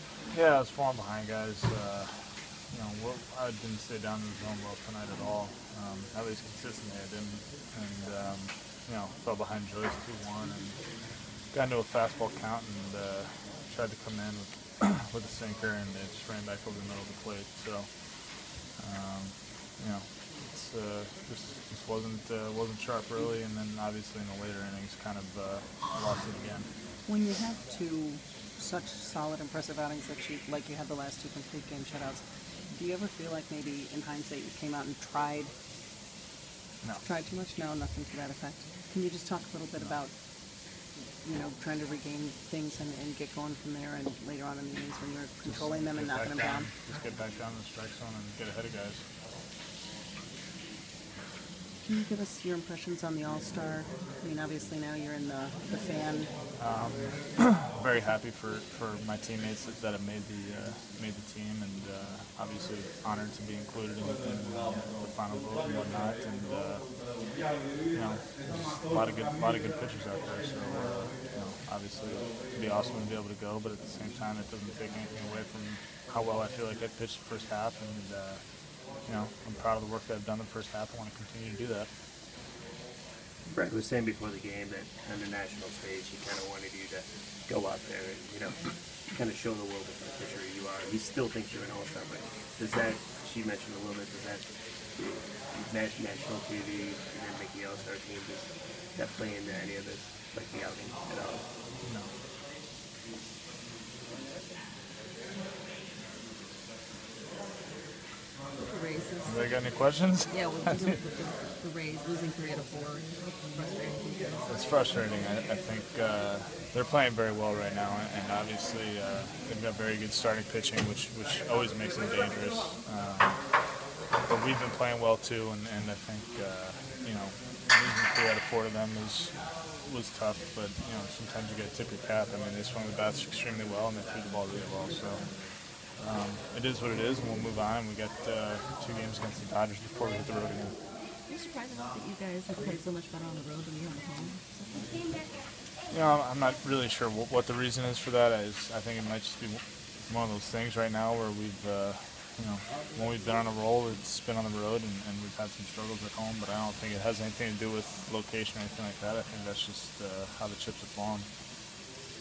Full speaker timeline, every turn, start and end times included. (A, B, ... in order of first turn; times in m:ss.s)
0:00.3-0:10.9 A
0:11.5-0:26.7 A
0:27.0-0:35.5 B
0:37.0-0:40.2 B
0:41.2-0:46.7 B
0:45.4-0:49.0 A
0:51.8-0:56.3 B
0:56.6-1:07.1 A
1:07.9-1:21.9 A
1:23.5-1:41.4 C
1:41.8-1:42.1 A
1:48.6-1:49.6 D
1:49.2-1:51.0 A
1:50.3-1:54.6 D
1:54.4-2:03.6 A
2:04.2-2:15.2 A
2:15.9-2:20.8 A
2:21.3-2:25.1 D
2:25.9-2:41.3 A